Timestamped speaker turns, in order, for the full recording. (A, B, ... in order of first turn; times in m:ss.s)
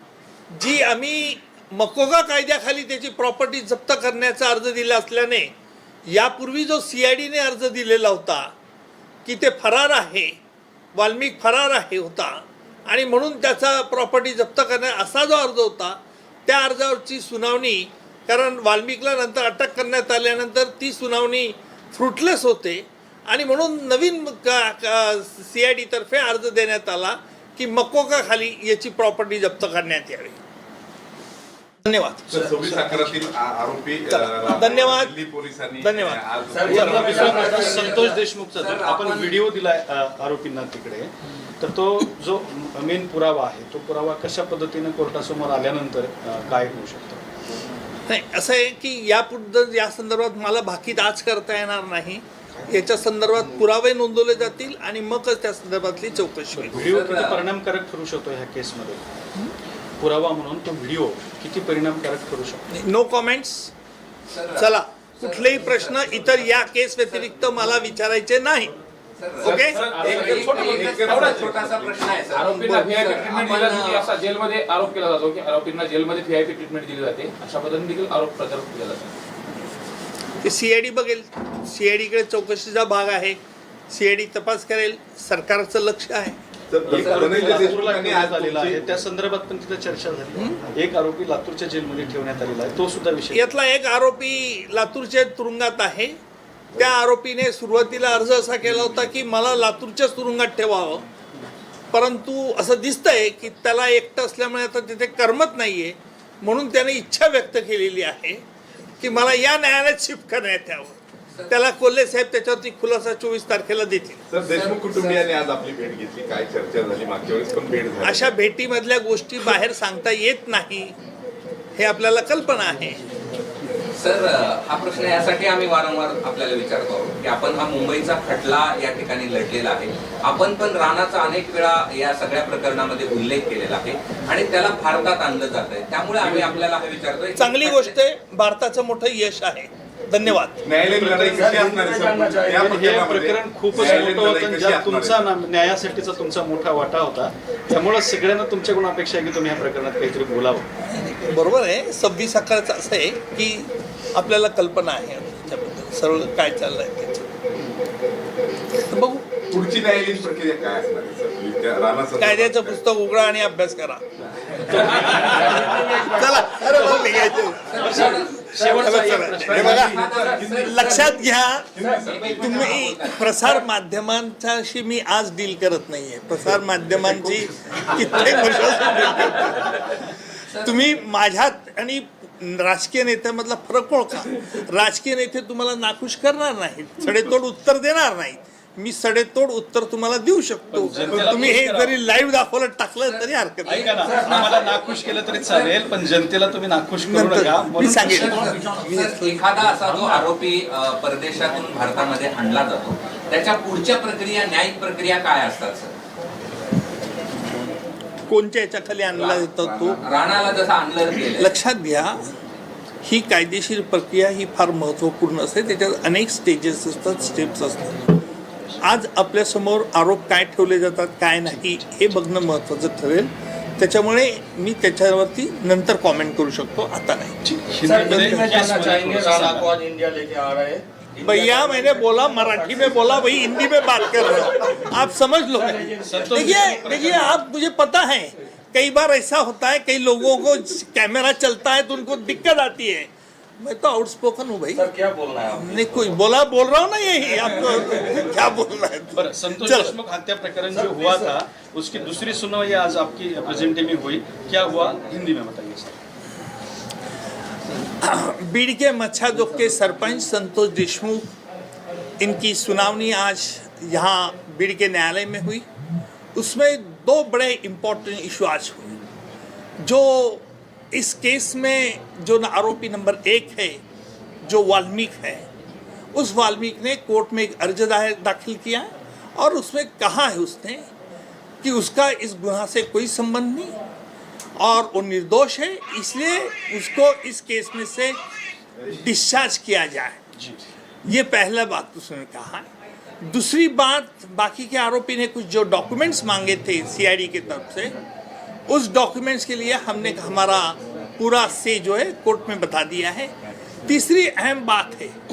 0:00.5-0:05.5 A
0:06.1-0:08.5 A
0:09.2-0:10.4 A
0:11.0-0:30.4 A
0:31.8-0:32.9 A
0:32.3-0:37.8 B
0:34.1-0:35.1 A
0:35.8-0:36.2 A
0:36.5-0:37.8 C
0:36.6-0:47.2 D
0:37.4-0:39.4 E
0:48.1-0:56.9 A
0:56.5-0:59.1 D
0:56.8-0:57.4 E
1:00.0-1:02.7 D
1:02.7-1:03.7 A
1:04.3-1:06.5 E
1:04.6-1:08.8 A
1:09.2-1:14.1 E
1:09.4-1:09.8 A
1:09.5-1:11.4 D
1:09.8-1:12.1 B
1:09.8-1:11.5 F
1:12.3-1:19.2 F
1:20.4-1:26.4 A
1:26.7-1:28.8 B
1:26.9-1:33.5 D
1:33.3-1:36.2 A
1:36.7-1:41.0 A
1:41.9-1:48.4 A
1:49.0-1:54.2 A
1:54.3-1:58.3 B
1:54.5-1:55.3 E
1:58.0-2:01.0 A
2:01.8-2:03.0 A
2:04.0-2:17.9 E
2:17.4-2:20.6 A
2:20.6-2:25.2 B
2:20.9-2:21.5 D
2:21.4-2:22.7 C
2:22.5-2:30.7 D
2:30.8-2:37.3 A
2:38.8-2:39.3 A
2:39.5-2:42.8 B
2:42.2-2:44.0 A
2:44.7-2:45.8 D
2:44.7-2:50.1 A
2:45.9-2:46.3 C
2:46.6-2:47.1 D
2:47.6-2:51.1 E
2:47.8-2:50.0 D
2:49.4-2:51.2 B
2:50.6-3:14.0 A
2:51.7-2:52.7 B
2:51.8-2:52.2 C
2:51.9-2:53.6 E
2:56.5-2:58.3 B
2:58.0-3:00.0 E
3:00.5-3:00.8 E
3:10.7-3:12.0 D
3:13.0-3:15.8 E
3:13.6-3:18.3 D
3:17.0-3:19.4 A
3:18.0-3:25.9 E
3:18.2-3:18.8 F
3:28.3-3:30.0 A
3:29.2-3:31.6 E
3:31.4-3:32.3 A
3:33.0-3:38.2 A
3:38.8-3:47.4 A
3:41.5-3:42.1 D
3:47.4-3:49.8 D
3:47.8-3:52.9 C
3:48.0-3:48.6 A
3:51.2-4:04.9 A
3:55.6-3:56.2 C
3:55.9-3:57.4 D
4:04.8-4:06.1 C
4:05.5-4:10.0 A
4:09.1-4:16.0 D
4:10.6-4:11.4 C
4:17.8-4:21.3 A
4:22.2-4:25.7 A
4:26.4-4:29.0 A
4:29.8-4:33.8 A
4:34.4-4:35.5 A
4:36.1-4:40.9 A
4:41.6-4:43.8 A
4:44.6-4:48.2 A
4:48.9-4:50.2 A
4:50.4-4:50.6 D
4:51.0-4:52.7 A
4:53.2-4:57.9 A
4:58.7-5:05.2 A